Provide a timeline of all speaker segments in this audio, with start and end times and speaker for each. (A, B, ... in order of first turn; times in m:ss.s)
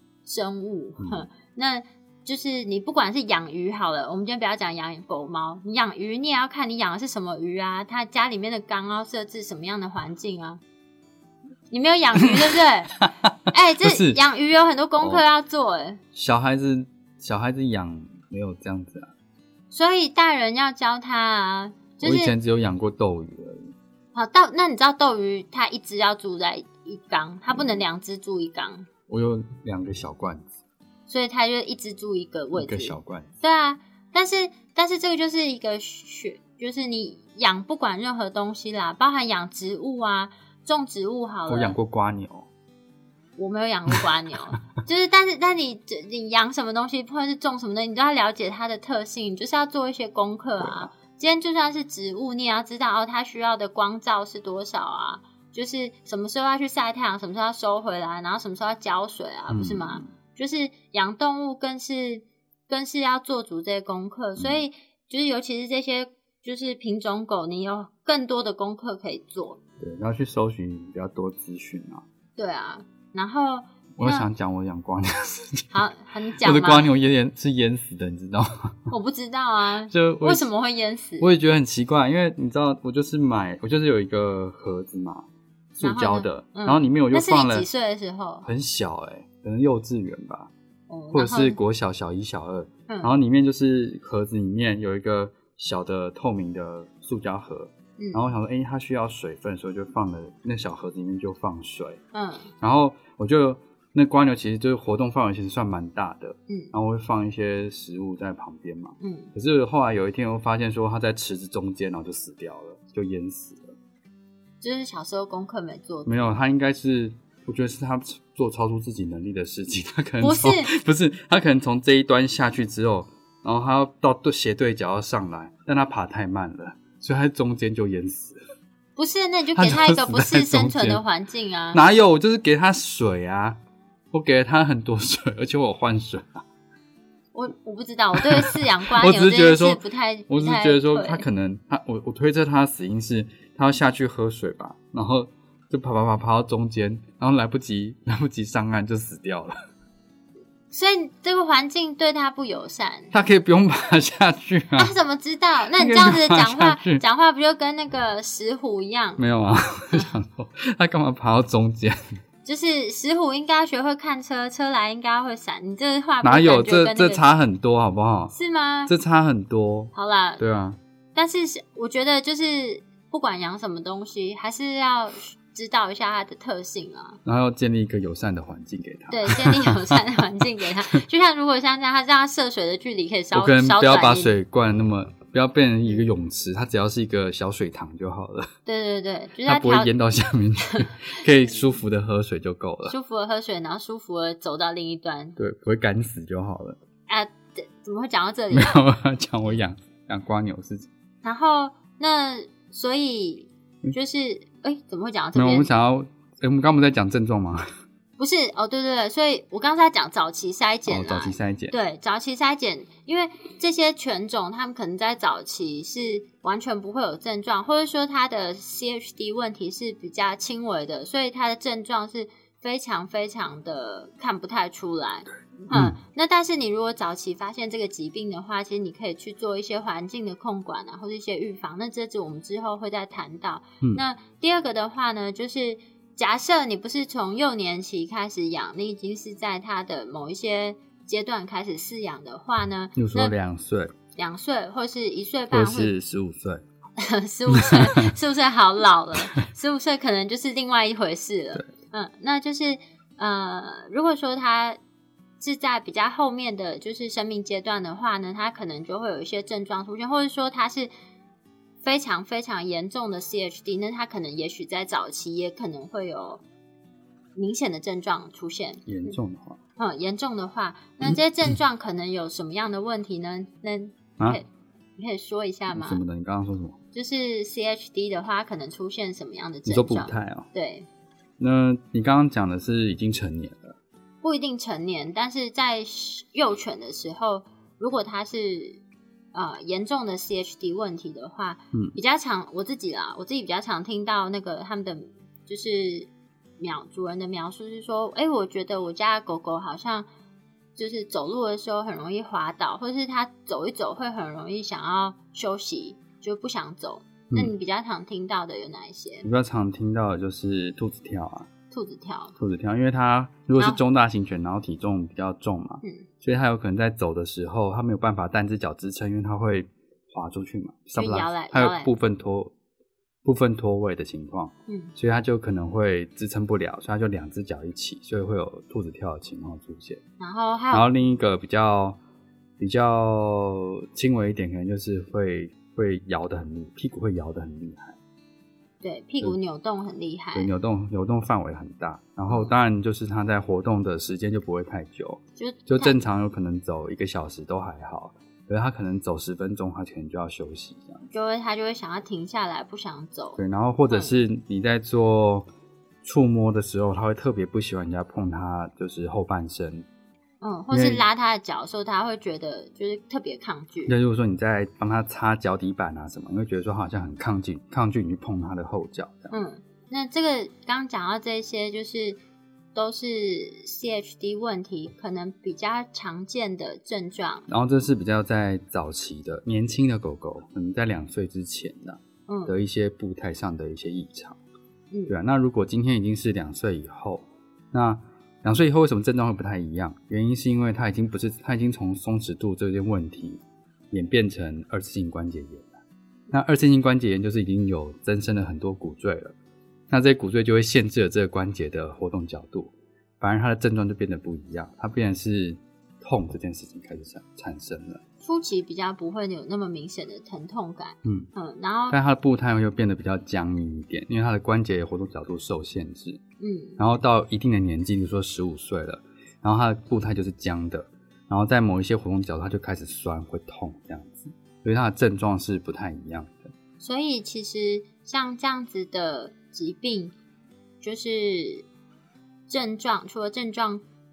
0:00.2-0:10.6 A
0:01.0-0:01.3 B
0:11.7-0:13.0 A
0:12.9-0:14.2 B
0:13.5-0:16.0 A
0:16.1-0:19.1 B
0:19.7-0:22.3 A
0:22.0-0:23.7 B
0:24.1-0:28.9 A
0:27.5-0:27.8 B
0:29.1-0:30.5 B
0:31.1-0:41.8 A
0:32.6-0:33.3 B
0:41.5-0:42.5 B
0:43.4-1:09.6 A
0:50.6-0:50.9 B
0:59.5-1:00.1 B
1:09.8-1:12.0 B
1:12.4-1:14.3 A
1:14.0-1:15.7 B
1:15.7-1:16.9 A
1:16.4-1:18.9 B
1:18.9-1:21.3 A
1:19.9-1:20.5 B
1:21.2-1:27.7 B
1:25.8-1:28.5 A
1:28.4-1:30.5 B
1:30.9-1:31.6 A
1:31.1-1:42.0 B
1:32.9-1:33.1 A
1:38.0-1:38.2 A
1:42.1-1:42.5 A
1:42.6-1:53.8 B
1:49.0-1:49.3 A
1:54.6-1:56.3 A
1:56.1-2:08.4 B
2:00.2-2:00.7 A
2:09.0-2:11.8 A
2:09.6-2:11.0 B
2:11.7-2:13.6 B
2:14.1-2:16.4 B
2:17.3-2:21.2 A
2:18.1-2:29.5 B
2:30.7-2:33.2 A
2:33.1-2:34.9 B
2:34.8-2:39.2 A
2:35.7-2:37.0 B
2:39.2-2:42.0 B
2:42.4-2:47.2 A
2:46.2-2:48.3 B
2:48.3-2:48.9 A
2:48.9-2:50.8 B
2:49.9-2:50.4 A
2:51.2-2:57.2 A
2:57.2-3:00.0 B
2:59.1-3:04.4 A
3:03.3-3:08.5 B
3:08.7-3:09.9 A
3:09.4-3:12.9 B
3:12.9-3:15.4 A
3:15.4-3:16.8 B
3:17.1-3:18.8 A
3:18.5-3:20.9 B
3:21.2-3:25.7 A
3:25.3-3:27.7 B
3:28.2-4:03.3 A
3:30.9-3:31.7 B
3:45.7-3:46.0 B
4:03.0-4:03.9 B
4:04.2-4:05.9 A
4:05.5-4:06.6 B
4:07.0-4:14.8 A
4:07.5-4:08.1 B
4:15.4-4:20.9 A
4:21.8-4:26.4 A
4:27.3-4:29.2 A
4:28.8-4:29.6 B
4:29.8-4:36.0 A
4:35.7-4:36.8 B
4:36.9-4:40.9 A
4:39.7-4:40.5 B
4:41.4-4:43.8 B
4:44.2-4:48.8 A
4:49.3-5:00.1 A
5:00.8-5:09.3 A
5:09.2-5:11.5 B
5:11.7-5:12.3 A
5:12.4-5:22.5 B
5:21.0-5:21.9 A
5:23.2-5:30.0 B
5:24.7-5:24.9 A
5:30.2-5:30.8 A
5:30.7-5:32.0 B
5:32.6-5:38.0 B
5:38.8-5:40.5 A
5:40.3-5:51.0 B
5:45.4-5:46.0 A
5:51.1-5:54.1 A
5:53.4-5:55.5 B
5:56.0-5:59.9 B
6:00.4-6:03.9 A
6:00.7-6:01.0 B
6:03.9-6:09.3 B
6:09.3-6:12.2 A
6:12.8-6:17.4 A
6:17.5-6:24.4 B
6:22.3-6:22.6 A
6:25.1-6:35.8 B
6:36.3-6:39.3 B
6:39.9-6:48.0 B
6:48.2-6:52.0 A
6:51.9-6:56.2 B
6:56.4-6:56.8 A
6:56.8-7:06.5 B
7:06.8-7:10.2 A
7:10.8-7:11.7 A
7:12.5-7:13.8 A